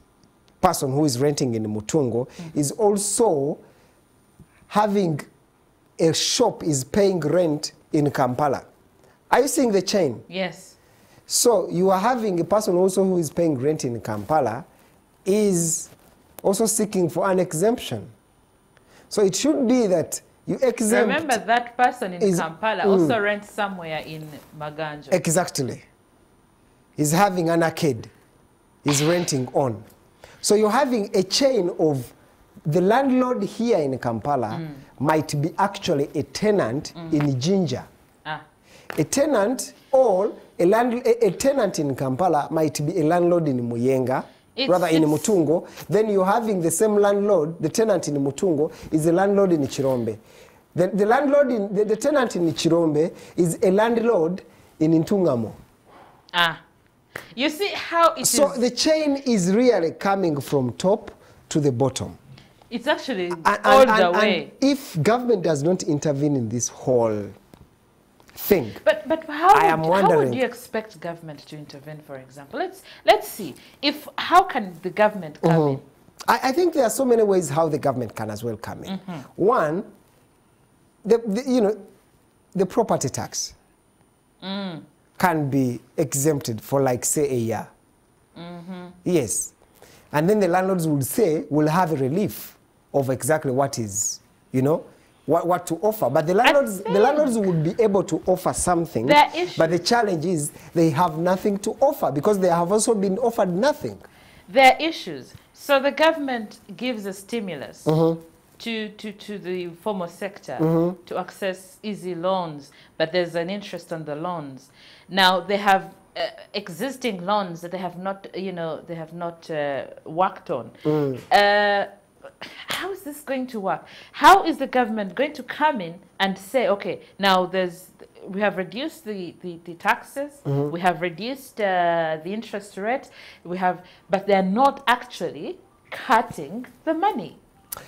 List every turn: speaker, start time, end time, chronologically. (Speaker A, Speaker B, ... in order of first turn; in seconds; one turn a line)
Speaker A: 0.6-3.6
Speaker A: 4.7-5.2
Speaker A: 6.0-8.7
Speaker A: 9.3-10.2
Speaker B: 10.3-10.7
Speaker A: 11.3-14.6
Speaker A: 15.2-15.9
Speaker A: 16.4-18.1
Speaker A: 19.1-21.4
Speaker B: 20.9-25.2
Speaker A: 22.2-23.2
Speaker A: 25.1-25.8
Speaker A: 27.0-28.1
Speaker A: 28.8-29.8
Speaker A: 30.4-32.1
Speaker A: 32.7-37.9
Speaker B: 34.5-34.8
Speaker A: 38.9-50.2
Speaker B: 44.5-45.4
Speaker A: 50.7-55.6
Speaker B: 56.3-56.6
Speaker B: 57.3-58.6
Speaker A: 58.2-62.2
Speaker B: 62.7-64.5
Speaker A: 63.4-67.3
Speaker A: 68.3-68.8
Speaker B: 68.8-75.8
Speaker A: 69.5-70.4
Speaker A: 75.4-79.9
Speaker B: 78.9-79.2
Speaker A: 81.0-81.8
Speaker A: 82.5-83.5
Speaker B: 84.4-84.8
Speaker A: 85.2-87.7
Speaker B: 88.3-88.9
Speaker A: 89.0-89.5
Speaker A: 90.1-104.0
Speaker B: 96.4-97.3
Speaker B: 99.0-99.8
Speaker B: 104.5-107.9
Speaker A: 107.8-108.2
Speaker B: 108.6-120.8
Speaker A: 110.6-111.0
Speaker A: 120.8-121.2
Speaker B: 121.3-121.9
Speaker B: 122.4-137.4
Speaker A: 130.4-130.7